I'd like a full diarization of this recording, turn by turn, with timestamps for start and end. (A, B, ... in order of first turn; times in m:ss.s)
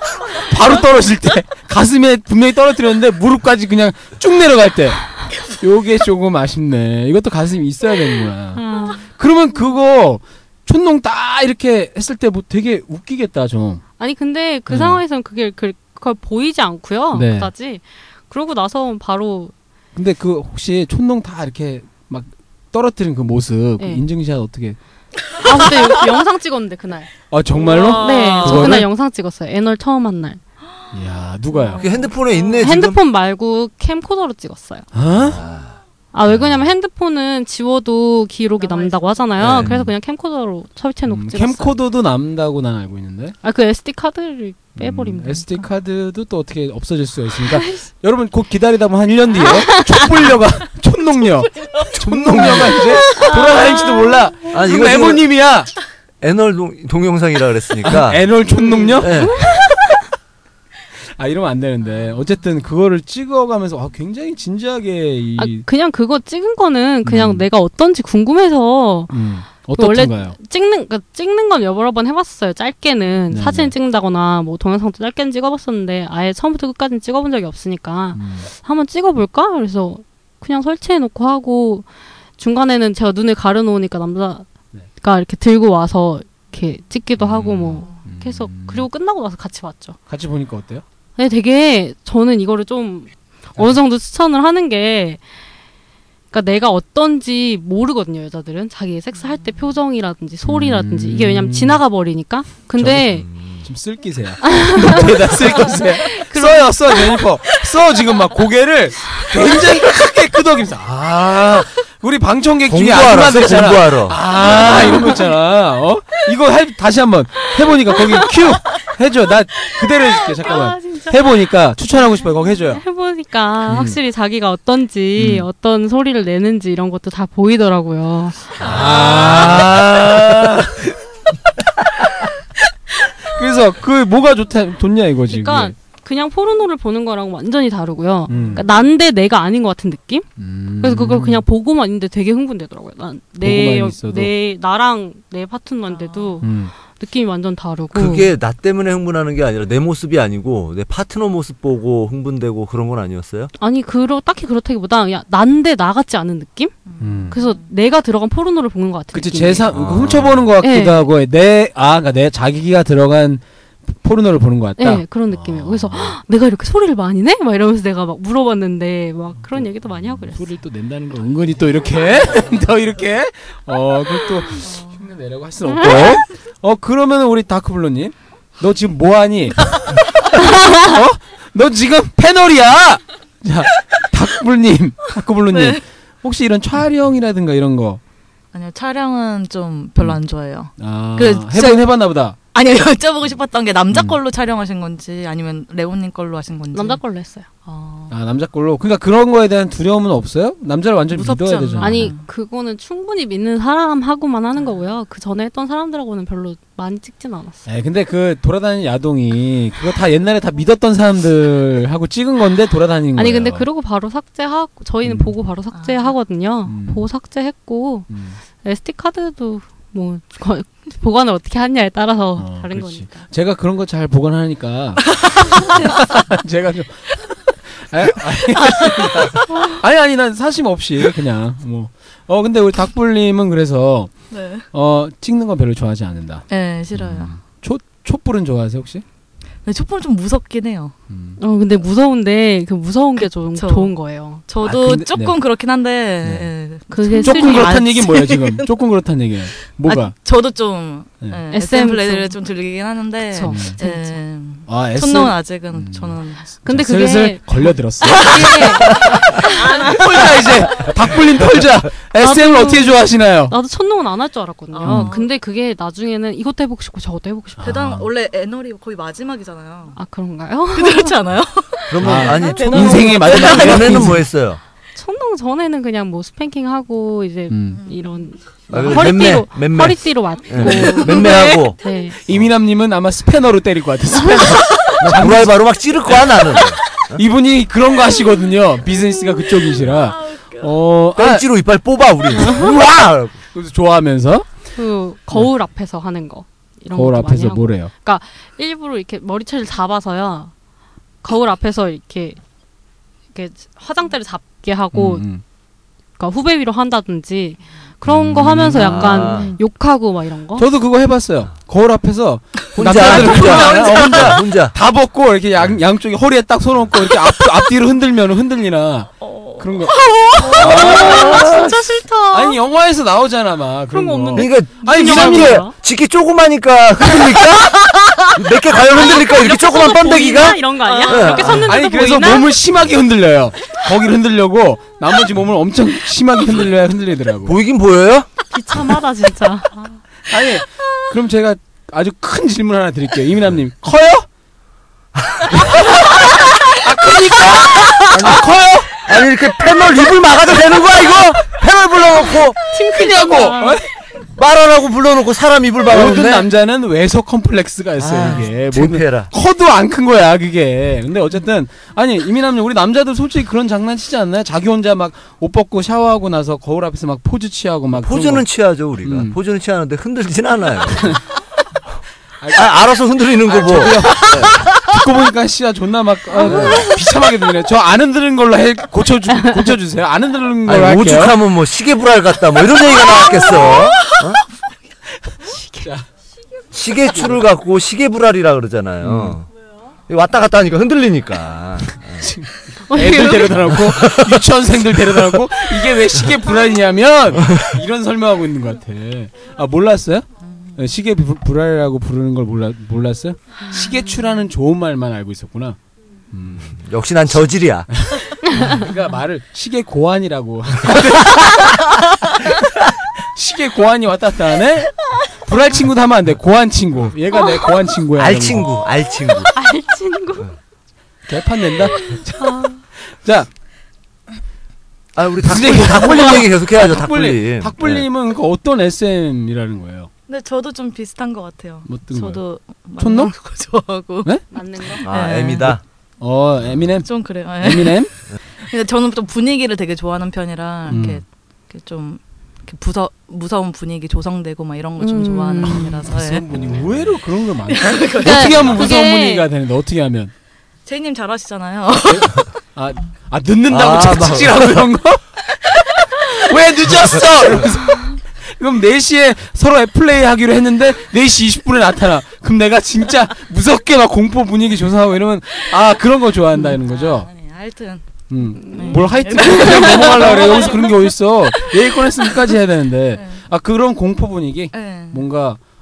0:00.3-0:13.8 A
0:08.6-0:09.0 B
0:14.0-0:19.5 B
0:14.7-0:15.0 A
0:17.1-0:17.5 A
0:19.9-0:24.8 A
0:25.4-0:27.1 B
0:27.3-0:28.9 A
0:27.5-0:28.8 C
0:27.8-0:30.4 B
0:30.9-0:31.9 A
0:31.6-0:32.6 C
0:31.8-0:33.0 D
0:32.6-0:34.9 B
0:34.9-0:35.4 A
0:35.2-0:35.7 D
0:36.1-0:41.8 B
0:36.2-0:36.7 A
0:38.6-0:39.3 C
0:39.4-0:39.9 D
0:39.5-0:39.9 A
0:41.1-0:43.3 A
0:43.4-0:45.7 B
0:44.8-0:55.7 A
0:52.1-0:52.6 D
0:52.5-0:53.3 C
0:53.2-0:54.2 B
0:54.5-0:55.3 D
0:56.2-0:58.3 D
0:57.8-0:59.3 A
0:58.6-0:59.1 C
0:58.7-0:59.9 B
0:59.0-0:59.4 D
1:01.2-1:05.6 A
1:05.4-1:09.1 B
1:07.0-1:07.5 A
1:09.1-1:10.4 A
1:09.7-1:21.8 B
1:13.3-1:13.7 A
1:18.1-1:18.5 A
1:22.4-1:24.4 B
1:25.0-1:30.0 B
1:27.2-1:28.9 A
1:30.1-1:30.8 A
1:31.2-1:35.2 B
1:36.3-1:43.3 B
1:39.1-1:39.7 C
1:40.4-1:41.8 A
1:42.8-1:43.0 A
1:42.9-1:43.6 D
1:43.6-1:51.0 A
1:44.4-1:47.2 B
1:50.8-1:51.7 D
1:51.5-2:02.8 A
1:52.7-1:54.2 D
1:54.4-1:55.2 B
2:00.4-2:01.2 B
2:02.8-2:09.4 B
2:03.7-2:04.0 A
2:05.2-2:05.5 A
2:08.6-2:10.3 D
2:08.6-2:11.0 A
2:13.2-2:15.7 A
2:15.3-2:20.2 B
2:18.3-2:18.6 A
2:20.4-2:21.4 A
2:20.8-2:28.3 B
2:23.4-2:24.3 A
2:25.9-2:26.5 C
2:26.4-2:26.7 A
2:27.9-2:33.5 D
2:33.6-2:36.8 B
2:36.9-2:37.6 C
2:37.0-2:37.4 A
2:37.3-2:39.7 B
2:39.1-2:46.2 A
2:39.7-2:40.5 D
2:40.6-2:41.1 B
2:44.8-2:50.4 B
2:49.5-2:59.8 A
2:54.6-2:55.0 C
2:55.8-2:56.2 B
3:00.3-3:08.0 A
3:05.5-3:05.8 C
3:08.5-3:11.9 C
3:10.8-3:12.4 A
3:12.5-3:17.0 C
3:13.9-3:14.2 A
3:16.7-3:17.4 B
3:17.6-3:18.1 C
3:18.1-3:22.1 A
3:21.1-3:22.2 C
3:21.8-3:27.6 B
3:24.6-3:24.8 C
3:27.6-3:33.6 A
3:33.2-3:38.1 B
3:35.0-3:35.3 A
3:35.7-3:36.1 C
3:36.7-3:37.0 A
3:38.1-3:38.4 A
3:38.6-3:43.2 B
3:42.4-3:54.1 A
3:45.2-3:45.9 C
3:48.6-3:49.7 C
3:54.3-3:54.6 C
3:54.7-3:59.0 A
3:56.5-3:57.3 C
3:59.6-4:00.9 C
4:01.1-4:01.4 A
4:01.4-4:04.4 B
4:03.2-4:03.9 C
4:04.5-4:08.7 C
4:04.6-4:05.4 A
4:06.2-4:06.5 A
4:06.9-4:07.8 B
4:07.2-4:10.2 A
4:09.9-4:16.4 C
4:11.5-4:12.3 B
4:13.3-4:14.2 B
4:13.4-4:13.8 A
4:14.6-4:18.7 A
4:16.6-4:19.9 B
4:18.0-4:20.5 C
4:19.7-4:23.6 A
4:22.2-4:27.7 B
4:24.7-4:25.3 C
4:24.8-4:25.2 A
4:27.6-4:28.1 A
4:27.6-4:30.0 C
4:30.0-4:31.2 B
4:30.7-4:34.0 C
4:31.9-4:34.6 D
4:32.0-4:34.2 A
4:35.0-4:42.2 B
4:37.5-4:37.8 A
4:37.8-4:38.2 C
4:38.7-4:41.8 D
4:41.0-4:41.7 C
4:42.2-4:45.6 A
4:44.8-4:47.2 D
4:47.1-4:51.4 A
4:49.8-4:50.7 C
4:51.1-4:53.4 D
4:52.3-4:52.7 B
4:53.5-4:54.5 A
4:54.8-5:00.5 B
4:56.9-4:57.9 A
5:01.2-5:02.4 B
5:03.3-5:05.3 B
5:04.9-5:05.4 A
5:06.2-5:10.6 B
5:08.0-5:09.6 A
5:08.6-5:09.5 D
5:10.6-5:20.0 A
5:12.7-5:14.7 D
5:19.2-5:21.4 C
5:20.4-5:22.6 B
5:20.5-5:21.4 A
5:20.6-5:21.7 D
5:22.3-5:25.6 A
5:23.9-5:25.7 B
5:24.3-5:31.7 D
5:28.9-5:32.5 B
5:30.8-5:31.4 C
5:31.5-5:37.5 A
5:37.4-5:38.3 D
5:38.5-5:40.0 B
5:40.3-5:44.3 A
5:45.3-5:45.6 D
5:45.5-5:49.0 A
5:48.1-5:48.4 D
5:49.0-5:52.6 D
5:52.7-5:53.8 B
5:52.8-5:53.8 A
5:54.3-5:56.5 D
5:55.9-6:08.5 A
5:58.0-5:59.3 D
6:08.0-6:11.2 D
6:09.0-6:09.4 A
6:12.4-6:12.7 A
6:12.5-6:14.8 D
6:13.3-6:21.4 A
6:16.4-6:16.8 B
6:16.4-6:16.9 D
6:20.6-6:24.4 D
6:23.1-6:24.1 C
6:25.5-6:25.9 B
6:26.7-6:29.4 D
6:27.0-6:27.4 A
6:29.0-6:29.4 A
6:30.1-6:32.2 D
6:32.2-6:45.8 A
6:32.9-6:33.8 B
6:33.7-6:34.4 D
6:35.0-6:35.4 D
6:37.4-6:37.7 D
6:40.4-6:40.8 C
6:46.3-6:46.8 A
6:46.7-6:47.9 D
6:47.9-6:51.8 A
6:52.3-6:52.6 A
6:53.3-6:58.7 A
6:58.1-6:59.5 D
6:59.5-7:00.5 B
7:01.3-7:03.5 A
7:02.0-7:02.8 B
7:05.1-7:08.0 D
7:05.4-7:10.1 A
7:10.3-7:15.8 C
7:11.8-7:13.3 A
7:14.5-7:15.0 B
7:15.0-7:15.8 D
7:16.2-7:18.1 A
7:17.0-7:26.4 C
7:20.9-7:21.2 A
7:25.0-7:25.9 B
7:25.6-7:30.3 A
7:27.7-7:28.7 C
7:28.2-7:29.5 B
7:30.8-7:32.5 C
7:32.1-7:35.2 A
7:33.7-7:34.9 D
7:36.2-7:47.3 A
7:46.6-7:48.0 C
7:48.3-7:55.6 A
7:48.6-7:50.2 B
7:48.7-7:52.0 C
7:53.2-7:53.4 C
7:54.7-7:55.2 C